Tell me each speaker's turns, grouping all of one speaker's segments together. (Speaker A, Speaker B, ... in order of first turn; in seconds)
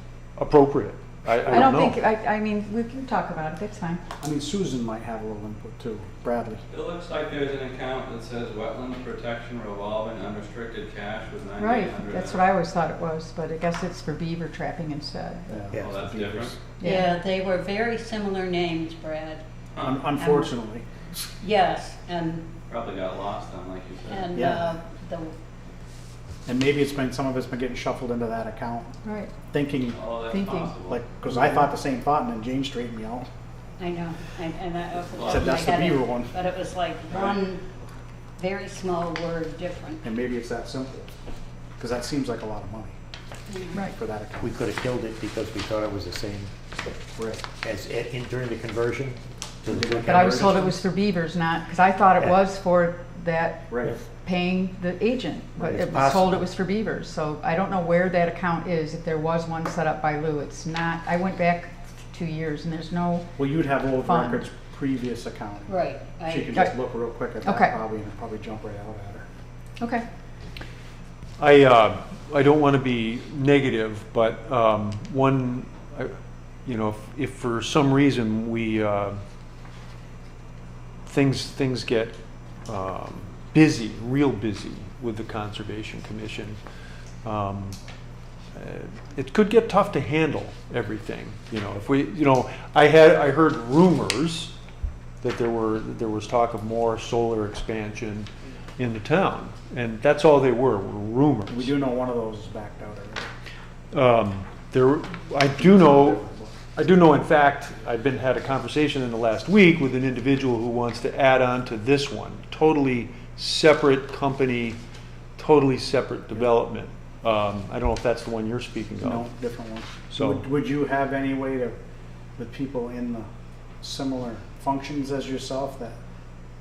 Speaker A: 0.4-2.0, 71.4-79.2, 81.0-82.1, 82.7-86.6, 87.2-87.8, 88.5-94.5, 95.2-101.7, 103.9-106.2, 106.7-114.8, 115.4-119.3, 120.1-120.4
Speaker B: 1.4-4.0, 11.6-15.7, 16.8-17.1, 29.0-29.3, 30.3-30.7, 31.4-31.7, 50.0-63.3, 64.0-64.4, 67.4-67.8, 69.8-70.0
Speaker C: 4.2-6.6, 15.5-16.6, 19.8-21.1, 24.3-24.7, 26.4-30.1, 30.9-33.3, 35.3-36.3, 40.0-41.1, 41.8-42.9, 43.9-44.6, 47.1-47.4, 49.7-50.6, 53.7-53.9, 63.4-69.3, 101.5-103.3, 105.6-106.6, 119.0-121.8, 122.4-123.3, 123.8-126.0
Speaker D: 6.7-12.4, 15.8-16.6, 22.7-24.2, 29.9-31.0
Speaker E: 15.7-16.1, 44.4-46.7, 47.6-50.8, 55.7-56.5
Speaker F: 16.8-19.4, 20.1-20.5, 21.4-22.5, 24.1-25.3, 33.8-37.6, 38.4-40.0, 43.5-43.8, 65.7-66.7